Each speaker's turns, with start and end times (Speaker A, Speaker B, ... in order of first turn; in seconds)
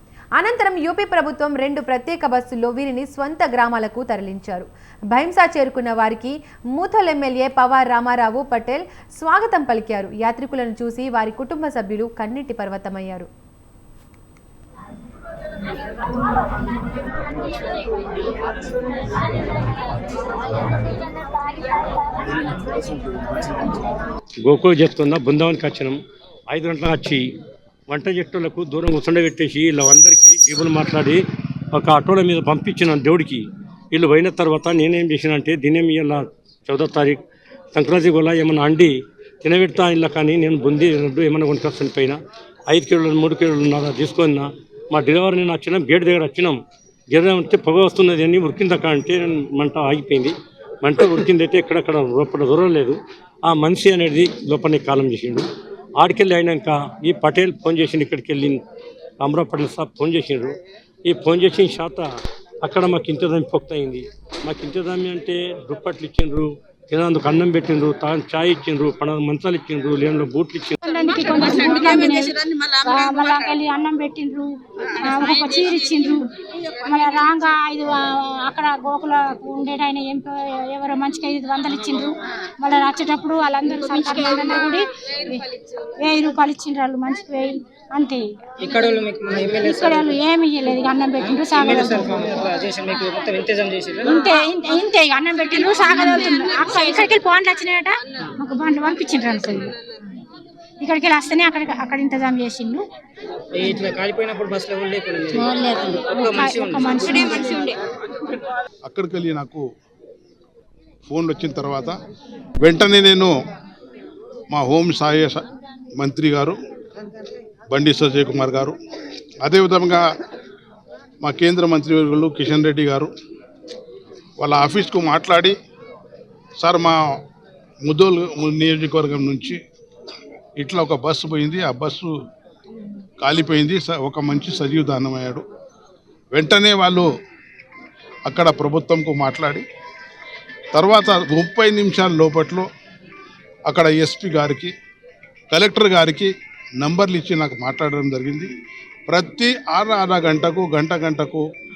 Speaker A: 0.4-13.3
Speaker B: 24.4-26.0, 26.5-27.2, 27.9-31.2, 31.8-37.2, 37.7-42.2, 42.7-46.6, 47.1-55.5, 56.0-58.6, 59.2-60.5, 61.1-62.1, 62.6-70.8
Speaker C: 70.8-88.2, 89.6-92.4, 94.0-99.7, 100.8-102.8, 106.2-107.7
Speaker D: 88.6-94.3, 103.5-107.8
Speaker E: 108.9-109.6, 111.1-112.0, 112.6-113.3, 114.5-115.4, 116.0-116.6, 117.7-118.8, 119.4-120.0, 121.2-123.1, 124.4-125.5, 126.6-127.0, 127.8-129.6, 130.6-132.1, 133.2-135.4, 136.3-137.1, 138.3-139.6, 140.8-142.7, 143.7-144.7, 145.5-148.5, 149.1-151.4